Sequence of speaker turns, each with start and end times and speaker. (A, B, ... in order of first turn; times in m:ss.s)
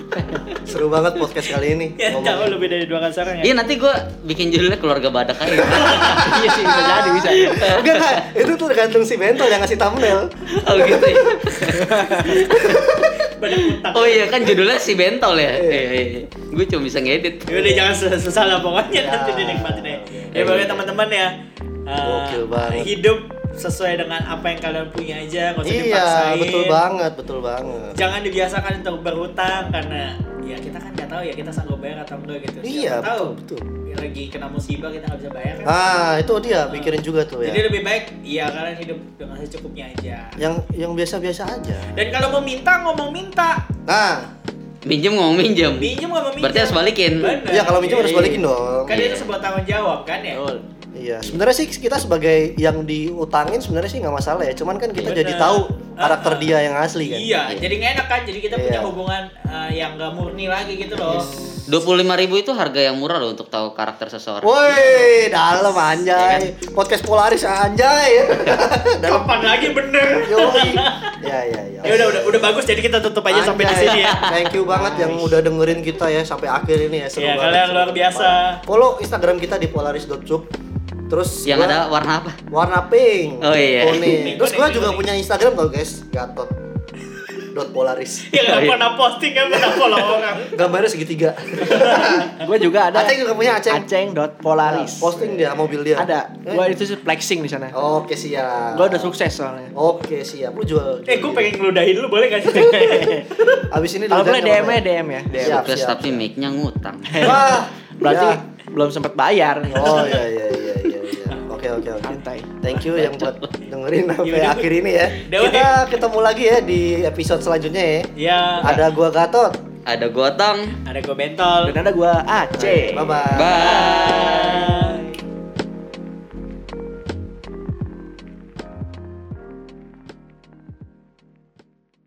0:00.6-0:02.6 A
0:02.0-0:03.5 B
0:03.4-0:08.2 C
0:05.6-0:06.3 B
0:06.1-0:07.6 D
0:06.6-0:11.2 A
0:10.5-0:13.0 C
0:11.7-0:12.4 D
0:12.2-0:14.6 B
0:12.5-0:13.1 A
0:13.9-0:17.5 C
0:15.5-0:15.9 A
0:17.5-0:21.3 B
0:17.5-0:17.9 A
0:18.9-0:20.7 A
0:20.4-0:20.9 C
0:21.9-0:26.8 B
0:22.0-0:22.9 A
0:25.6-0:28.0 A
0:28.0-0:33.3 B
0:32.6-0:33.7 A
0:33.9-0:35.8 B
0:35.6-0:37.6 A
0:36.7-0:40.4 B
0:40.4-0:42.2 A
0:41.9-0:43.6 B
0:43.9-0:44.3 A
0:44.8-0:47.3 C
0:45.8-0:50.4 B
0:47.5-0:49.1 A
0:48.9-0:49.3 C
0:50.3-0:50.7 D
0:51.0-0:57.4 A
0:55.0-0:56.5 B
0:57.0-1:01.3 B
0:58.5-0:58.9 A
1:01.1-1:01.4 A
1:01.2-1:01.6 D
1:01.7-1:05.1 C
1:04.4-1:12.5 A
1:06.0-1:06.5 C
1:09.0-1:11.1 B
1:11.8-1:14.3 B
1:13.3-1:20.5 A
1:13.9-1:14.5 C
1:14.6-1:15.4 D
1:17.2-1:18.6 B
1:21.1-1:21.8 A
1:21.5-1:22.4 C
1:22.5-1:26.6 A
1:23.4-1:24.3 C
1:23.9-1:25.0 B
1:27.5-1:28.3 A
1:28.3-1:30.7 B
1:28.4-1:28.8 C
1:30.4-1:32.3 A
1:31.6-1:32.3 B
1:32.3-1:33.2 D
1:32.9-1:33.9 A
1:33.7-1:35.4 D
1:34.6-1:36.7 A
1:36.0-1:37.8 D
1:37.7-1:39.1 A
1:38.7-1:39.7 D
1:39.7-1:41.5 A
1:41.1-1:43.3 B
1:42.5-1:43.3 D
1:43.6-1:44.8 A
1:44.1-1:45.6 D
1:45.3-1:47.5 C
1:45.4-1:46.2 A
1:47.1-1:50.2 D
1:47.2-1:48.4 A
1:49.7-1:50.2 B
1:49.7-1:58.1 A
1:52.0-1:52.5 D
1:52.8-1:53.5 C
1:54.2-1:55.8 B
1:58.2-1:58.8 B
1:58.6-1:59.5 A
1:59.9-2:00.8 C
2:00.9-2:01.8 B
2:01.6-2:03.3 D
2:02.6-2:03.8 A
2:03.3-2:04.6 C
2:03.4-2:05.0 B
2:03.9-2:05.1 D